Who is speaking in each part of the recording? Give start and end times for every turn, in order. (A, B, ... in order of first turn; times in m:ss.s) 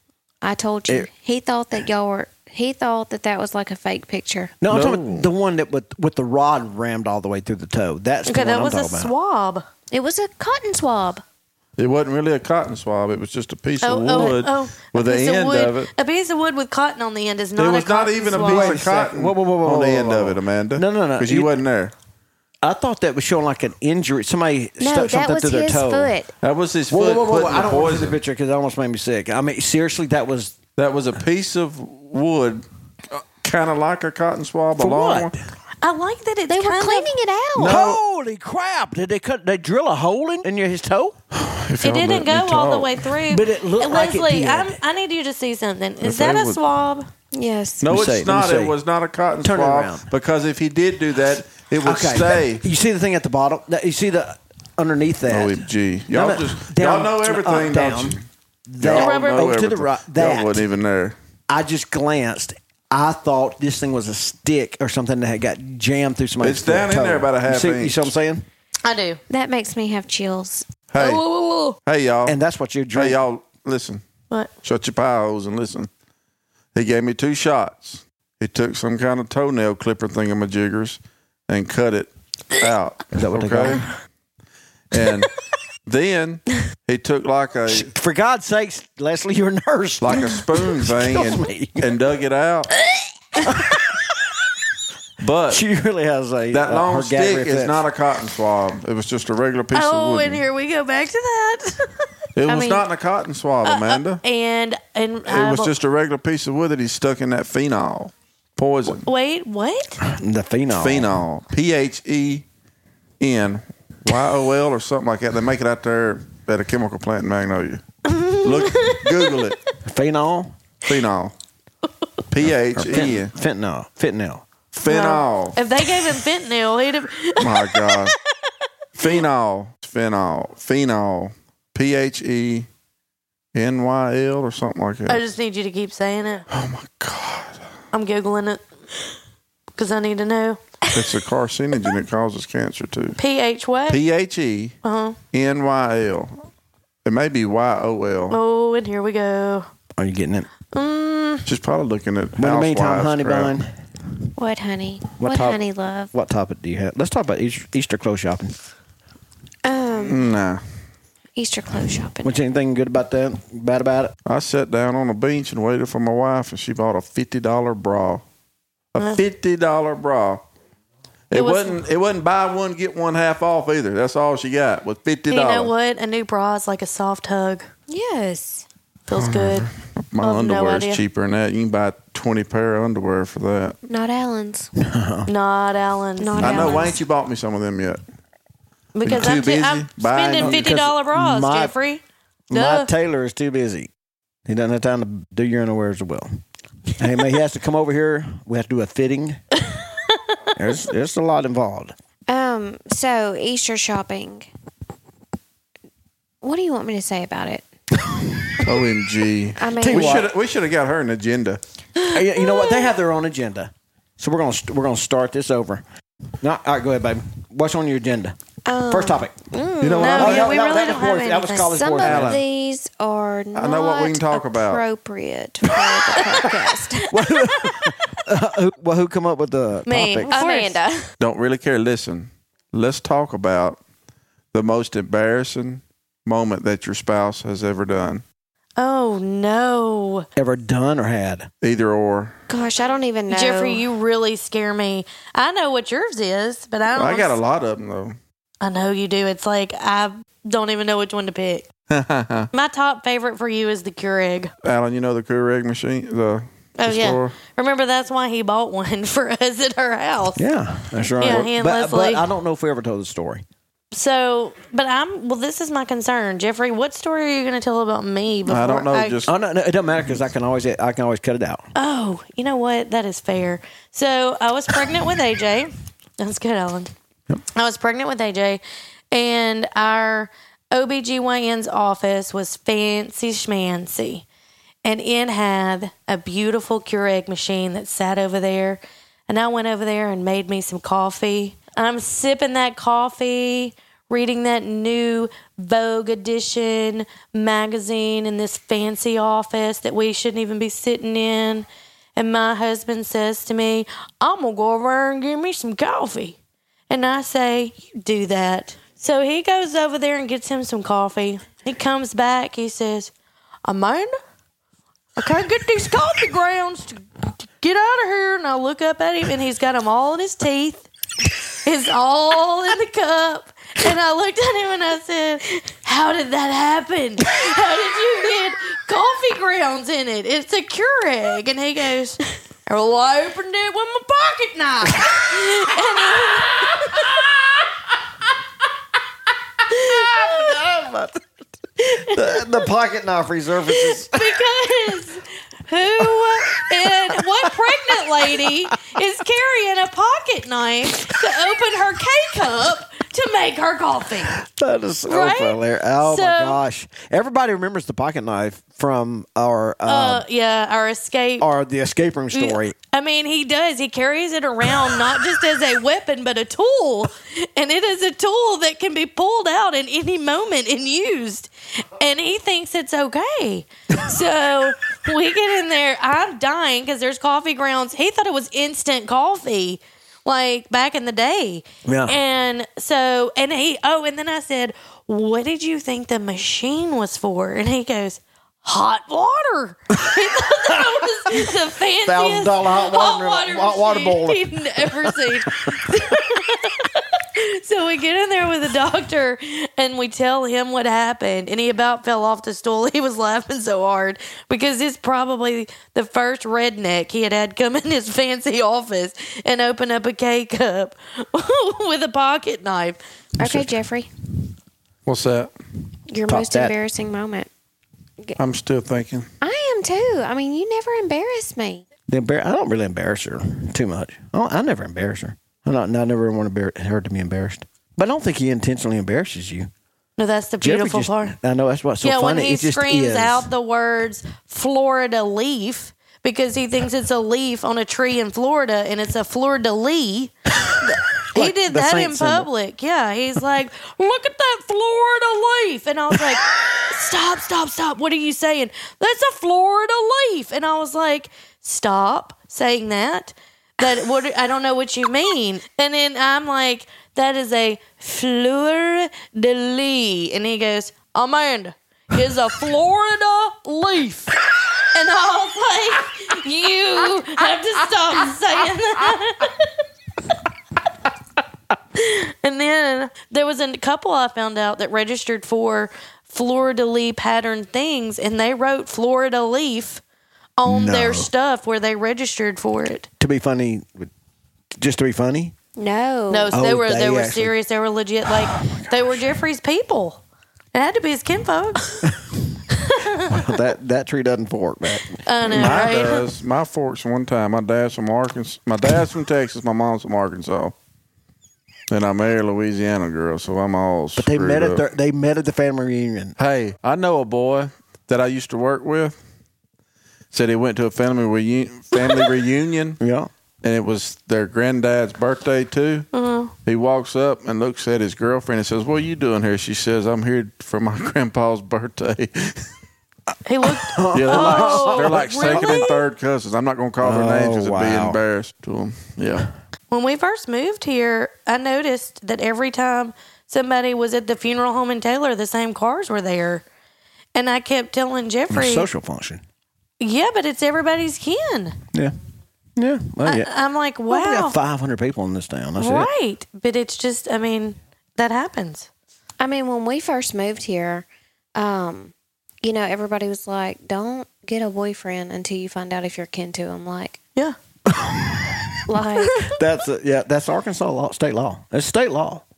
0:00.4-0:04.5 A
0:04.6-0:09.1 B
0:04.7-0:05.3 C
0:08.3-0:09.6 D
0:09.9-0:11.2 A
0:11.8-0:15.9 C
0:13.8-0:18.8 D
0:17.6-0:21.9 C
0:18.3-0:21.5 B
0:22.6-0:26.1 B
0:24.8-0:26.3 A
0:26.4-0:28.2 C
0:26.9-0:30.6 B
0:30.8-0:35.3 C
0:34.8-0:35.4 B
0:35.8-0:37.1 D
0:36.5-0:37.8 A
0:37.6-0:38.0 C
0:37.6-0:41.2 B
0:41.3-0:43.1 C
0:41.8-0:47.1 D
0:43.3-0:44.8 B
0:46.0-0:46.6 C
0:47.3-0:47.9 A
0:47.8-0:52.6 C
0:47.8-0:48.8 B
0:49.4-0:50.1 B
0:51.8-0:58.2 B
0:55.3-0:58.3 C
0:58.7-1:00.7 B
0:58.8-1:01.2 C
0:58.9-0:59.5 D
1:01.5-1:08.5 B
1:06.4-1:08.1 C
1:08.8-1:09.2 D
1:09.3-1:10.7 A
1:10.9-1:11.2 C
1:11.0-1:11.8 D
1:11.8-1:12.4 C
1:12.3-1:13.2 B
1:13.0-1:14.0 C
1:14.6-1:15.9 C
1:16.8-1:23.9 C
1:23.1-1:23.9 B
1:24.9-1:25.3 C
1:25.9-1:27.9 C
1:27.7-1:31.9 B
1:30.0-1:32.7 C
1:33.4-1:34.2 B
1:35.2-1:35.6 C
1:35.5-1:37.8 B
1:36.5-1:40.4 C
1:39.7-1:42.8 D
1:42.4-1:44.2 C
1:43.6-1:45.7 D
1:45.3-1:49.1 C
1:48.9-1:50.0 D
1:50.0-1:51.2 B
1:50.8-1:52.4 C
1:53.2-1:57.8 C
1:58.0-1:59.4 D
1:58.4-1:59.6 C
1:59.8-2:00.6 B
2:00.8-2:01.3 C
2:02.3-2:03.3 C
2:02.8-2:04.4 B
2:04.7-2:05.6 C
2:04.9-2:08.1 D
2:07.4-2:08.2 C
2:09.0-2:12.7 C
2:13.5-2:15.2 C
2:15.1-2:16.4 D
2:16.5-2:17.6 C
2:17.9-2:18.6 D
2:19.8-2:20.8 D
2:20.9-2:23.2 C
2:23.2-2:24.0 D
2:23.9-2:24.8 C
2:24.8-2:25.2 D
2:25.3-2:26.4 C
2:27.0-2:28.4 C
2:28.3-2:29.7 D
2:30.0-2:30.5 B
2:30.7-2:31.5 D
2:31.5-2:33.5 C
2:32.4-2:33.7 B
2:34.4-2:36.1 A
2:35.2-2:38.5 B
2:39.6-2:40.2 A
2:40.0-2:40.6 C
2:41.4-2:42.3 A
2:42.2-2:44.2 B
2:44.3-2:48.2 C
2:48.9-2:50.4 C
2:51.3-2:55.7 C
2:51.3-2:51.8 D
2:55.3-2:57.7 D
2:57.9-2:58.7 A
2:59.1-2:59.7 D
2:59.1-3:03.8 C
3:00.2-3:01.0 D
3:03.9-3:04.7 A
3:04.8-3:05.3 B
3:05.3-3:06.8 D
3:06.2-3:07.0 A
3:06.4-3:08.0 C
3:06.4-3:06.8 B
3:09.0-3:12.9 D
3:09.0-3:10.7 C
3:10.4-3:11.7 B
3:12.5-3:13.9 B
3:14.5-3:16.3 B
3:17.0-3:19.4 B
3:20.6-3:21.9 B
3:22.3-3:24.5 A
3:26.4-3:27.6 A
3:28.1-3:28.6 B
3:28.6-3:31.6 C
3:29.6-3:30.3 A
3:29.8-3:30.3 B
3:32.1-3:35.8 B
3:36.4-3:39.4 B
3:38.7-3:40.3 A
3:39.8-3:40.6 C
3:39.9-3:41.8 D
3:40.0-3:42.4 B
3:41.7-3:47.2 A
3:42.0-3:42.4 C
3:43.6-3:44.9 C
3:46.0-3:46.5 B
3:47.0-3:50.4 B
3:49.9-3:50.8 D
3:50.3-3:51.1 A
3:51.2-3:53.8 C
3:54.5-3:58.2 C
3:58.8-4:00.3 D
4:00.4-4:01.5 B
4:01.6-4:02.4 C
4:02.5-4:03.8 A
4:03.3-4:07.4 D
4:07.0-4:08.2 C
4:08.6-4:11.7 D
4:11.9-4:12.5 C
4:12.5-4:14.5 D
4:14.6-4:17.4 C
4:16.8-4:20.4 D
4:20.4-4:23.4 B
4:21.2-4:22.2 D
4:23.9-4:29.2 D
4:28.5-4:29.3 C
4:29.3-4:31.7 B
4:31.8-4:36.9 D
4:37.5-4:44.3 D
4:44.8-5:06.4 D
5:06.9-5:13.1 D
5:13.6-5:14.1 D
5:15.2-5:20.9 D
5:21.6-5:37.1 D
5:36.9-5:37.4 B
5:39.7-5:41.2 B
5:39.7-5:40.6 D
5:41.8-5:44.4 B
5:41.8-5:42.4 D
5:43.7-5:54.4 D
5:46.0-5:48.6 B
5:54.3-6:00.2 B
5:55.1-5:56.6 D
5:59.9-6:01.5 D
6:01.4-6:02.8 B
6:02.3-6:53.0 D
6:21.8-6:22.2 B
6:30.0-6:30.8 B
6:32.0-6:36.1 B
6:53.4-6:53.7 B
6:53.4-6:54.1 A
6:55.1-6:55.5 C
6:56.1-6:57.5 A
6:56.3-6:56.8 B
6:58.4-6:59.3 C
6:59.4-7:01.8 A
7:02.1-7:09.7 B
7:10.2-7:11.4 D
7:10.6-7:13.5 B
7:12.0-7:20.3 D
7:20.7-7:22.5 B
7:21.3-7:44.3 D
7:44.9-7:49.7 D
7:52.0-8:00.0 D
8:00.6-8:03.1 D
8:00.6-8:01.3 B
8:03.2-8:04.1 B
8:04.8-8:05.6 B
8:05.8-8:06.6 A
8:06.3-8:10.2 D
8:06.5-8:07.6 B
8:08.2-8:09.4 B
8:10.7-8:11.9 D
8:12.0-8:12.4 B
8:12.7-8:13.3 D
8:13.2-8:15.7 B
8:15.3-8:16.2 D
8:15.5-8:20.7 C
8:21.9-8:24.8 C
8:24.2-8:26.4 B
8:26.4-8:29.2 C
8:30.3-8:33.0 C
8:33.0-8:33.3 B
8:33.6-8:36.1 C
8:36.1-8:36.5 D
8:36.6-8:42.7 C
8:43.5-8:46.0 D
8:43.6-8:45.9 B
8:44.1-8:49.5 C
8:47.0-8:48.2 B
8:49.9-8:56.6 D
8:57.4-8:58.9 D
8:58.5-8:59.4 B
9:00.0-9:01.8 D
9:02.8-9:03.5 B
9:03.2-9:04.6 D
9:04.1-9:06.1 B
9:05.8-9:08.9 D
9:09.4-9:17.2 A
9:17.9-9:18.8 B
9:18.9-9:19.5 A
9:19.2-9:19.5 D
9:19.4-9:22.4 B